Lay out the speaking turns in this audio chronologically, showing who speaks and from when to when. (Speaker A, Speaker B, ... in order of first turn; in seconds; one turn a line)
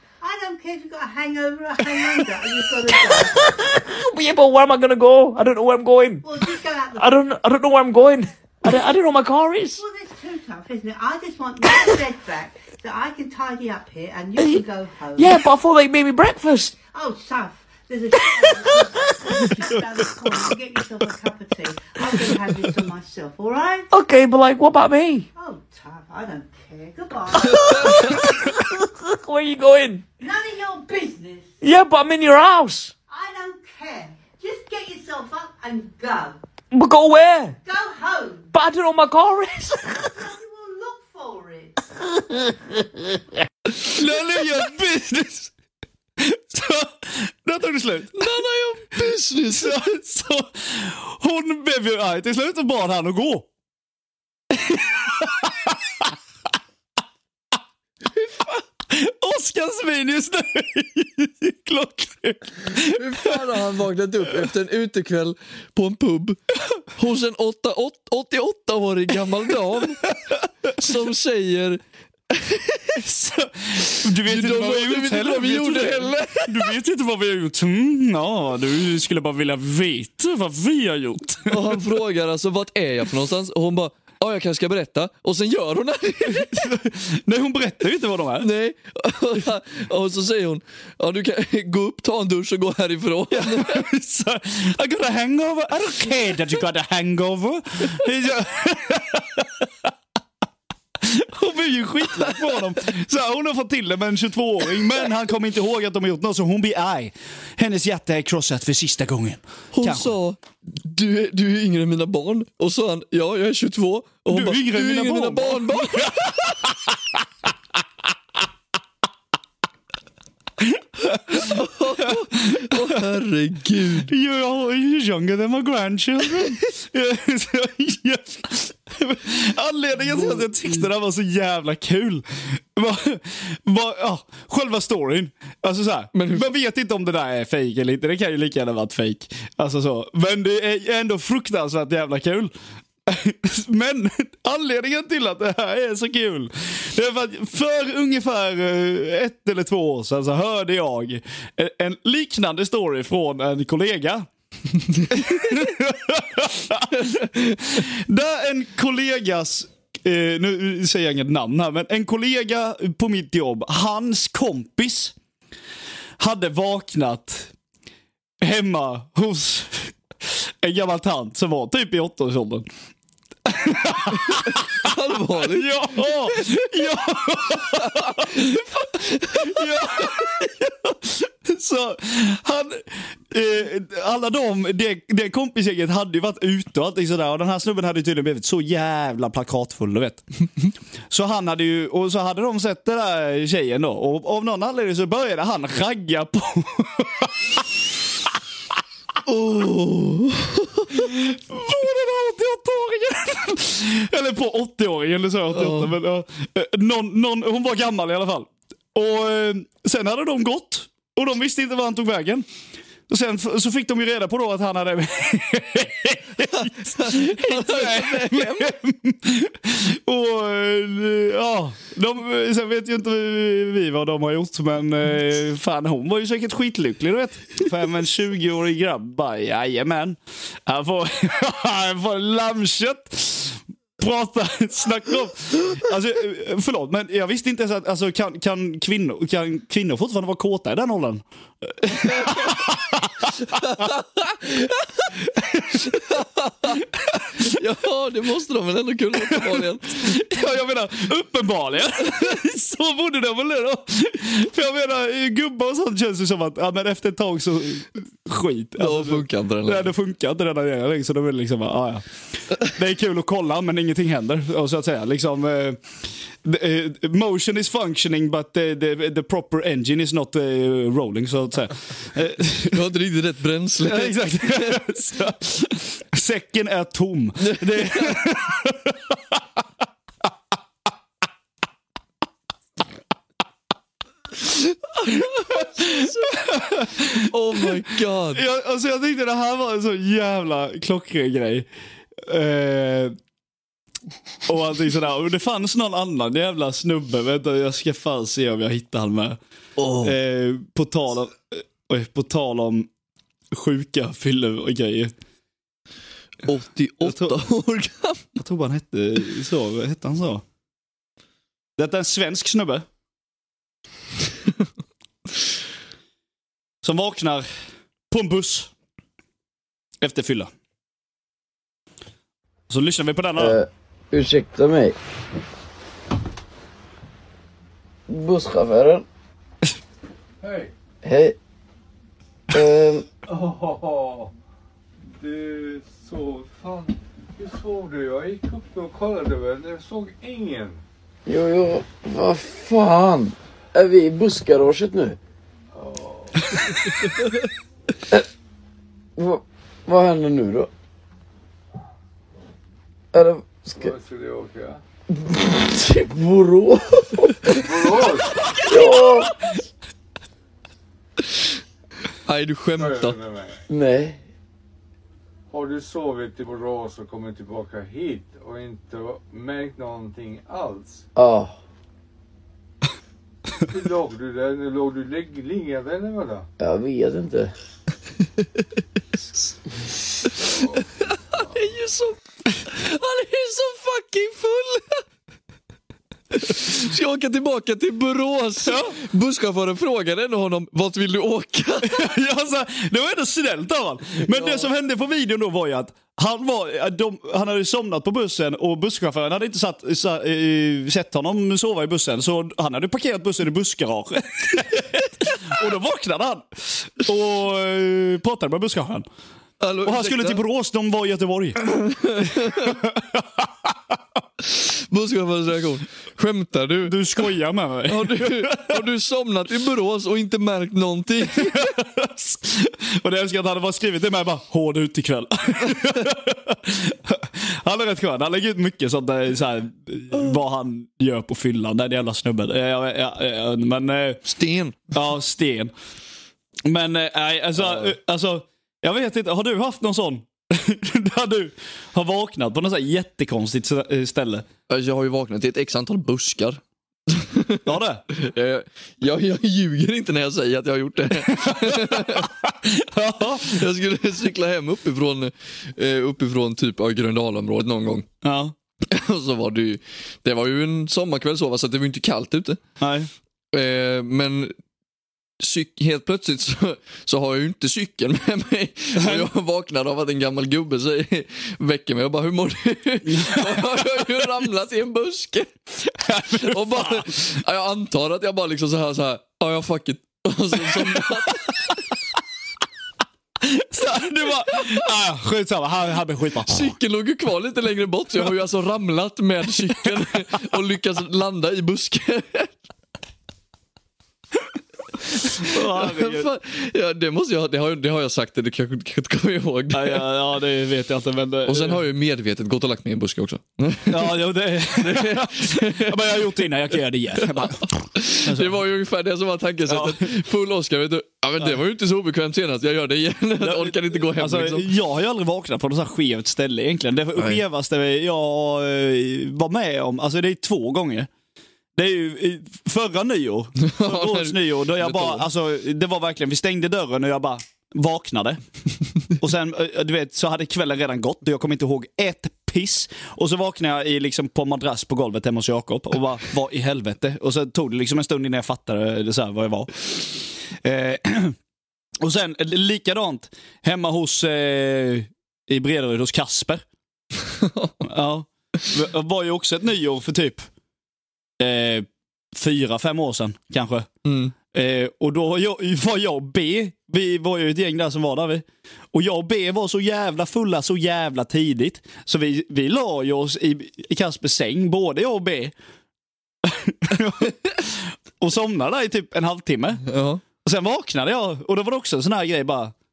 Speaker A: 0.2-3.4
Speaker B: 1.9-2.2
Speaker B: 3.0-6.4
Speaker A: 6.2-7.2
Speaker B: 7.0-9.8
Speaker A: 9.8-15.4
Speaker B: 15.2-16.8
Speaker A: 16.9-23.9
Speaker B: 18.4-20.1
Speaker B: 22.0-22.3
Speaker B: 23.9-25.3
Speaker A: 25.4-28.5
Speaker B: 27.4-30.0
Speaker A: 30.2-31.6
Speaker B: 31.6-32.9
Speaker A: 33.1-36.4
Speaker B: 36.7-37.5
Speaker A: 37.6-38.5
Speaker B: 38.5-40.2
Speaker A: 40.1-41.8
Speaker C: 43.7-45.5
Speaker C: 46.2-48.4
Speaker D: 48.1-49.9
Speaker C: 49.5-53.5
Speaker C: 54.5-56.1
Speaker C: 58.9-63.4
Speaker D: 62.8-66.4
Speaker D: 66.9-70.1
Speaker D: 70.7-73.0
Speaker C: 72.9-81.8
Speaker D: 74.2-76.7
Speaker D: 81.5-86.7
Speaker C: 86.3-88.5
Speaker D: 88.4-93.8
Speaker C: 93.3-99.9
Speaker C: 101.0-110.1
Speaker D: 102.2-102.6
Speaker D: 109.7-116.7
Speaker C: 114.3-116.8
Speaker C: 120.6-123.0
Speaker D: 121.1-124.1
Speaker C: 124.0-142.5
Speaker D: 130.0-130.9
Speaker D: 136.1-136.5
Speaker C: 143.1-154.3
Speaker C: 155.1-165.1
Speaker C: 166.2-167.5
Speaker C: 168.4-172.7
Speaker C: 173.4-190.2
Speaker D: 174.1-176.6
Speaker D: 177.7-180.2
Speaker C: 191.1-197.7
Speaker D: 199.2-201.1
Speaker C: 200.9-212.4
Speaker D: 205.5-205.9
Speaker C: 213.1-243.9
Speaker D: 216.4-218.8
Speaker D: 242.0-242.6
Speaker D: 243.5-245.2
Speaker C: 245.2-246.0
Speaker D: 245.7-250.2
Speaker C: 246.7-247.4
Speaker C: 249.2-265.8
Speaker D: 258.8-259.9
Speaker C: 266.4-272.8
Speaker D: 272.6-274.8
Speaker C: 273.8-279.4
Speaker D: 277.4-278.2
Speaker D: 284.4-288.4
Speaker C: 285.5-287.7
Speaker C: 288.3-293.1
Speaker C: 294.4-299.4
Speaker D: 299.8-300.1
Speaker C: 300.0-302.9
Speaker C: 303.5-305.1
Speaker D: 306.4-308.2
Speaker C: 307.0-307.4
Speaker C: 308.4-310.4
Speaker C: 311.8-312.9
Speaker C: 316.8-317.5
Speaker C: 318.1-318.7
Speaker C: 320.0-320.5
Speaker C: 322.7-323.6
Speaker E: 323.4-324.9
Speaker E: 328.1-329.0
Speaker F: 330.4-330.7
Speaker E: 331.0-331.4
Speaker E: 332.5-333.1
Speaker F: 333.2-334.3
Speaker F: 335.0-340.8
Speaker E: 341.2-345.2
Speaker F: 345.7-346.5
Speaker E: 349.2-350.7
Speaker E: 353.1-353.9
Speaker F: 353.7-354.8
Speaker E: 355.1-358.0
Speaker F: 357.5-358.3
Speaker E: 358.6-359.3
Speaker D: 362.2-363.2
Speaker F: 362.7-363.6
Speaker E: 363.7-364.2
Speaker F: 365.5-371.1
Speaker E: 371.1-371.6
Speaker F: 373.6-376.5
Speaker E: 376.6-377.5
Speaker D: 378.4-378.6
Speaker D: 380.5-385.0
Speaker D: 386.3-392.0
Speaker C: 388.6-388.9
Speaker C: 391.8-409.1
Speaker D: 394.2-394.7
Speaker D: 409.6-410.4
Speaker C: 409.8-411.6
Speaker D: 411.6-412.8
Speaker C: 412.4-413.7
Speaker D: 414.5-417.0
Speaker C: 416.8-418.8
Speaker D: 417.9-421.7
Speaker C: 421.2-434.2
Speaker D: 434.2-434.9
Speaker C: 434.9-435.7
Speaker C: 436.6-444.4
Speaker D: 437.6-437.9
Speaker D: 444.7-452.3
Speaker C: 447.6-448.0
Speaker C: 451.3-453.6
Speaker D: 453.4-458.1
Speaker C: 458.2-458.5
Speaker D: 458.9-462.6
Speaker C: 462.8-463.1
Speaker D: 463.5-464.5
Speaker D: 465.4-481.8
Speaker C: 468.9-469.3
Speaker C: 473.1-474.1
Speaker C: 476.0-477.1
Speaker C: 483.4-486.7
Speaker D: 486.5-492.5
Speaker D: 495.1-500.1
Speaker C: 495.4-496.3
Speaker C: 499.7-501.8
Speaker D: 501.4-506.3
Speaker C: 503.9-507.7
Speaker D: 507.2-514.7
Speaker C: 508.2-508.6
Speaker C: 509.7-510.1
Speaker C: 513.4-521.1
Speaker D: 517.1-517.4
Speaker C: 521.7-528.4
Speaker D: 523.6-525.3
Speaker C: 529.2-541.4
Speaker C: 542.0-546.6
Speaker D: 547.3-547.9
Speaker C: 547.8-550.5
Speaker C: 551.4-553.9
Speaker D: 554.0-554.3
Speaker C: 554.4-565.5
Speaker C: 566.4-569.8
Speaker D: 569.8-570.2
Speaker C: 570.4-572.7